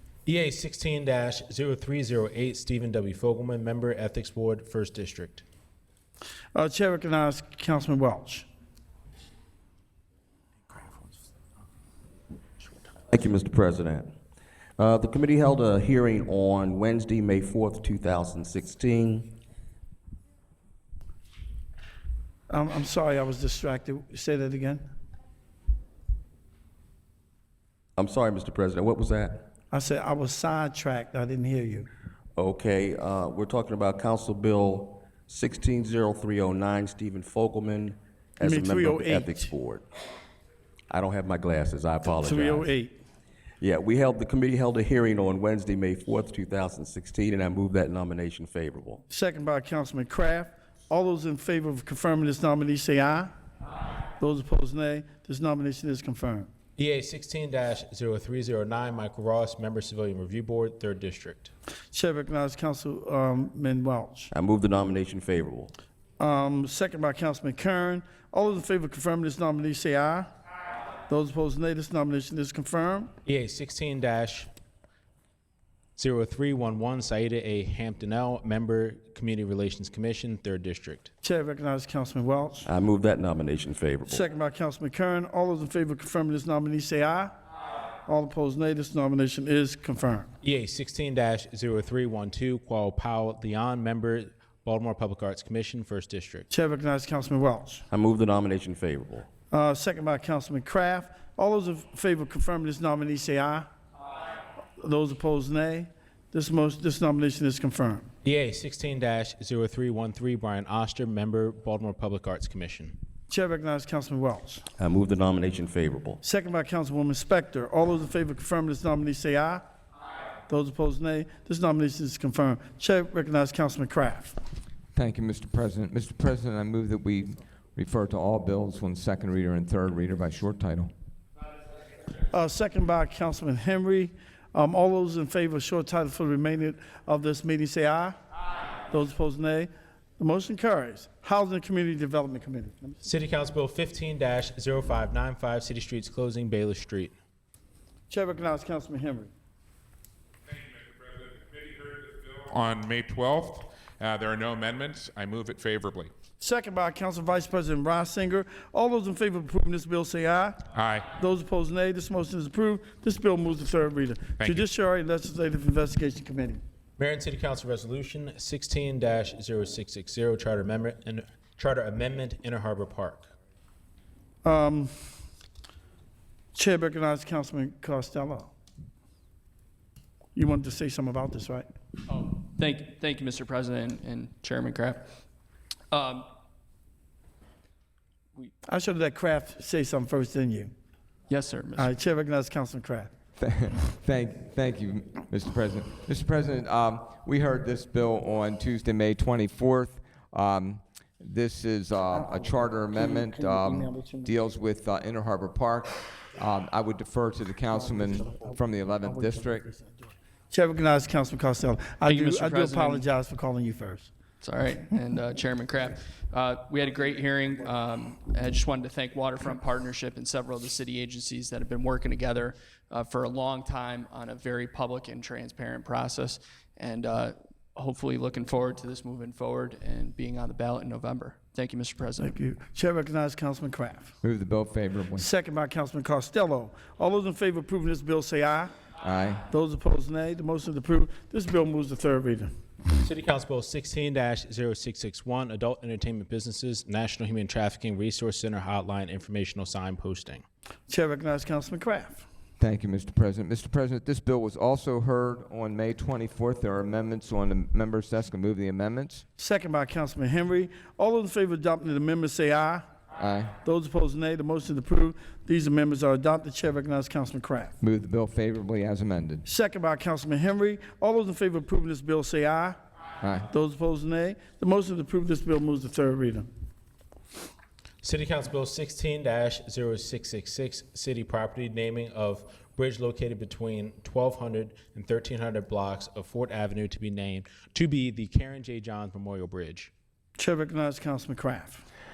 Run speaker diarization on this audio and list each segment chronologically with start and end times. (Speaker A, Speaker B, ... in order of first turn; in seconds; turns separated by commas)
Speaker A: 0.2-5.4, Speaker B: 6.5-8.5, Speaker C: 13.1-14.1, Speaker C: 14.8-19.3, Speaker B: 22.5-24.9, Speaker C: 28.0-29.5, Speaker B: 29.7-31.9, Speaker C: 32.4-39.8, Speaker B: 38.4-39.5, Speaker C: 40.9-42.7, Speaker B: 42.2-43.0, Speaker C: 43.6-49.0, Speaker B: 49.1-53.3, Speaker B: 54.2-56.5, Speaker A: 56.8-61.5, Speaker B: 61.9-64.3, Speaker C: 64.3-65.7, Speaker B: 66.2-70.3, Speaker B: 71.1-73.1, Speaker A: 73.2-74.5, Speaker A: 76.0-81.1, Speaker B: 81.2-82.7, Speaker C: 82.6-84.2, Speaker B: 84.0-87.3, Speaker B: 88.0-90.3, Speaker A: 90.4-96.5, Speaker B: 96.5-97.8, Speaker C: 97.9-99.3, Speaker B: 99.5-103.7, Speaker B: 104.8-108.1, Speaker A: 108.2-113.0, Speaker B: 113.3-114.6, Speaker C: 114.8-116.2, Speaker B: 116.2-119.6, Speaker B: 120.5-124.3, Speaker D: 124.9-130.9, Speaker B: 132.3-138.2, Speaker B: 138.9-143.0, Speaker A: 143.0-147.1, Speaker B: 148.1-149.3, Speaker E: 150.5-156.1, Speaker B: 156.4-160.6, Speaker E: 160.7-161.1, Speaker B: 161.2-166.6, Speaker E: 164.4-164.6, Speaker A: 167.0-173.3, Speaker B: 174.4-174.9, Speaker B: 176.5-178.5, Speaker B: 180.3-181.7, Speaker F: 182.1-185.1, Speaker F: 185.9-186.2, Speaker B: 188.7-190.7, Speaker F: 191.3-191.9, Speaker B: 191.8-193.1, Speaker D: 193.4-209.7, Speaker B: 210.5-214.1, Speaker F: 212.0-213.1, Speaker F: 214.4-232.4, Speaker B: 232.2-234.1, Speaker D: 234.2-235.2, Speaker B: 235.2-238.7, Speaker D: 239.0-239.4, Speaker B: 239.5-242.5, Speaker A: 243.0-250.4, Speaker B: 250.9-252.2, Speaker D: 252.6-259.2, Speaker B: 259.4-262.8, Speaker D: 263.1-263.5, Speaker B: 263.6-267.8, Speaker D: 267.8-269.4, Speaker B: 269.4-272.8, Speaker D: 273.2-273.5, Speaker B: 273.5-276.5, Speaker A: 278.0-289.9, Speaker B: 290.4-291.8